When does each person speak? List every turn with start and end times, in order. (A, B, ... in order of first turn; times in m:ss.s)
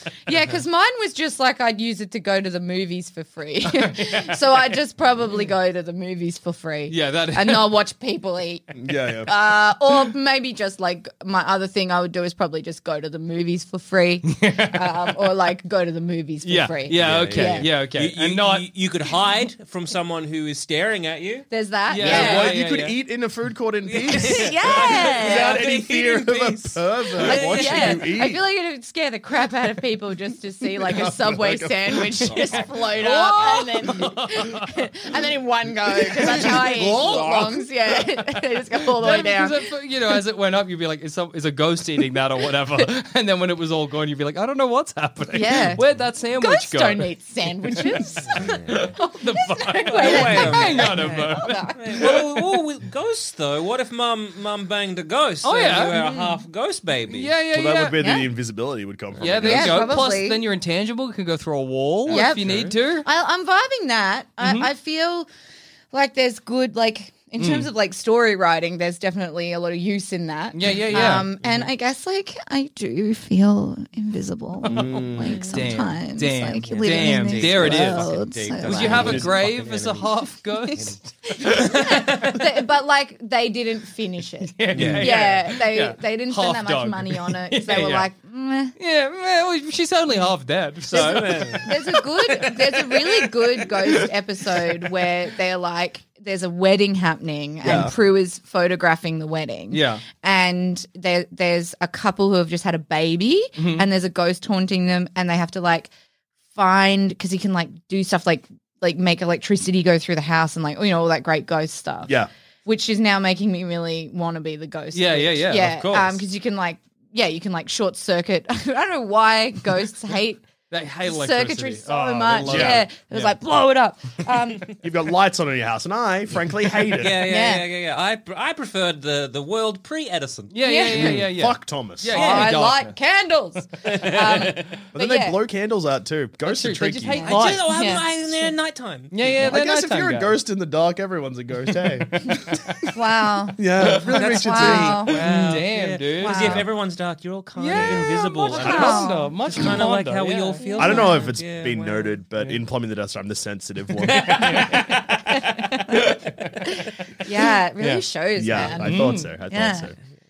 0:00.3-0:08.7 A
0:03.7-0:04.4 B
0:06.9-0:07.8 B
0:08.7-0:09.3 C
0:09.2-0:17.7 A
0:14.3-0:15.1 B
0:16.4-0:18.7 B
0:17.0-0:21.5 D
0:21.5-0:22.5 A
0:21.9-0:23.0 B
0:22.0-0:28.4 C
0:23.8-0:28.0 D
0:24.1-0:25.6 A
0:27.2-0:39.6 A
0:30.8-0:33.0 C
0:32.9-0:34.7 B
0:36.1-0:37.7 C
0:39.0-0:47.1 B
0:45.3-0:45.8 A
0:46.4-0:52.2 A
0:47.6-0:52.6 B
0:49.8-0:57.4 D
0:55.4-0:56.3 B
0:57.1-0:58.0 B
0:57.5-1:00.0 C
0:58.0-0:58.3 A
0:59.2-1:03.0 B
0:59.4-1:00.4 A
1:02.1-1:05.3 A
1:02.1-1:02.8 D
1:04.4-1:04.7 B
1:05.9-1:19.2 A
1:07.4-1:07.7 B
1:10.5-1:11.3 B
1:14.6-1:18.1 B
1:14.6-1:15.6 C
1:16.6-1:20.9 D
1:18.6-1:22.4 B
1:18.7-1:19.4 C
1:21.3-1:28.7 A
1:21.9-1:22.2 D
1:24.4-1:28.1 B
1:24.7-1:25.1 D
1:24.7-1:25.1 C
1:28.8-1:34.8 B
1:30.8-1:31.7 D
1:31.6-1:45.9 A
1:37.6-1:37.9 C
1:37.7-1:37.9 B
1:39.7-1:40.0 B
1:43.6-1:43.8 B
1:46.5-1:52.1 A
1:52.6-2:00.4 A
1:54.9-1:56.2 B
2:00.7-2:03.3 B
2:01.0-2:04.7 A
2:02.4-2:02.8 C
2:04.8-2:07.3 C
2:07.0-2:10.5 D
2:07.2-2:07.6 A
2:10.5-2:12.9 B
2:10.6-2:11.2 A
2:10.9-2:12.1 C
2:12.1-2:12.5 D
2:12.1-2:15.4 A
2:13.8-2:14.7 D
2:14.9-2:17.4 C
2:16.4-2:17.7 B
2:17.1-2:18.4 A
2:17.2-2:19.1 D
2:19.1-2:20.4 B
2:19.2-2:22.8 C
2:22.9-2:23.6 A
2:23.6-2:25.0 C
2:24.0-2:32.2 D
2:24.1-2:25.2 A
2:25.0-2:26.6 B
2:26.2-2:26.6 A
2:27.6-2:30.6 B
2:27.7-2:28.1 C
2:28.4-2:29.3 A
2:30.6-2:31.2 A
2:30.8-2:34.7 C
2:34.1-2:36.7 B
2:36.7-2:39.9 A
2:37.8-2:38.0 B
2:38.4-2:40.0 C
2:38.6-2:39.3 B